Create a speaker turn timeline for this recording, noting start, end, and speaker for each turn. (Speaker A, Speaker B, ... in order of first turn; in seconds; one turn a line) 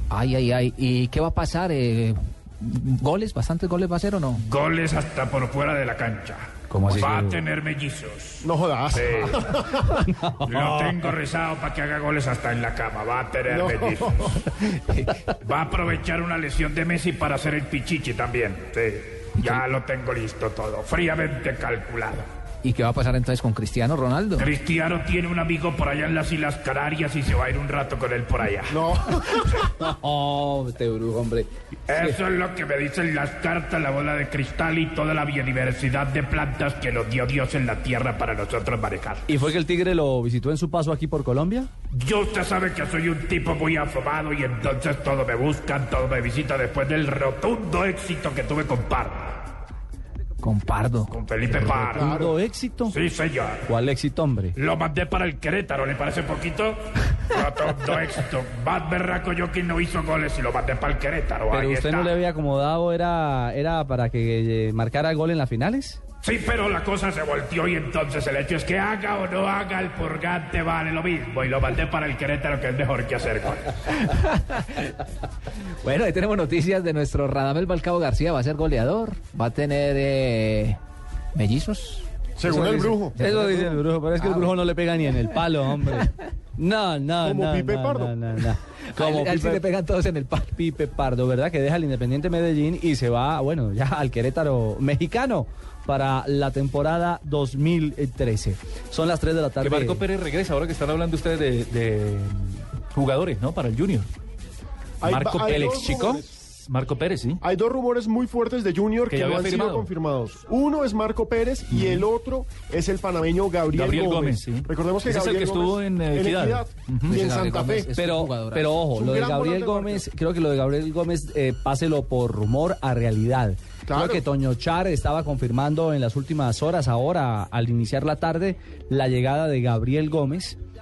Speaker A: 0.1-4.4
Speaker B: 4.4-9.6
Speaker C: 6.7-7.4
Speaker D: 8.4-10.2
Speaker C: 10.1-10.9
Speaker B: 10.4-14.5
Speaker D: 13.5-14.3
Speaker A: 14.5-15.2
Speaker B: 15.4-22.2
Speaker A: 22.6-24.5
Speaker B: 24.4-29.7
Speaker D: 28.7-29.7
Speaker C: 29.6-32.2
Speaker B: 31.9-39.4
Speaker C: 39.3-41.7
Speaker B: 41.9-49.5
Speaker A: 50.4-51.1
Speaker B: 51.1-52.1
Speaker D: 51.5-52.4
Speaker C: 51.9-53.0
Speaker B: 52.9-53.7
Speaker C: 53.6-54.5
Speaker B: 54.5-62.1
Speaker C: 61.5-66.0
Speaker B: 66.2-74.1
Speaker A: 74.0-75.0
Speaker A: 75.6-80.8
Speaker A: 81.3-82.1
Speaker D: 82.3-83.3
Speaker C: 82.5-89.6
Speaker A: 82.7-84.5
Speaker D: 87.2-88.2
Speaker A: 88.9-90.5
Speaker C: 90.5-100.0
Speaker E: 99.6-104.1
Speaker D: 105.0-106.3
Speaker E: 105.0-107.4
Speaker C: 105.5-106.2
Speaker D: 107.4-117.9
Speaker E: 109.1-109.9
Speaker E: 113.7-117.2
Speaker A: 117.1-118.8
Speaker C: 117.9-130.6
Speaker D: 118.9-120.0
Speaker D: 123.8-124.2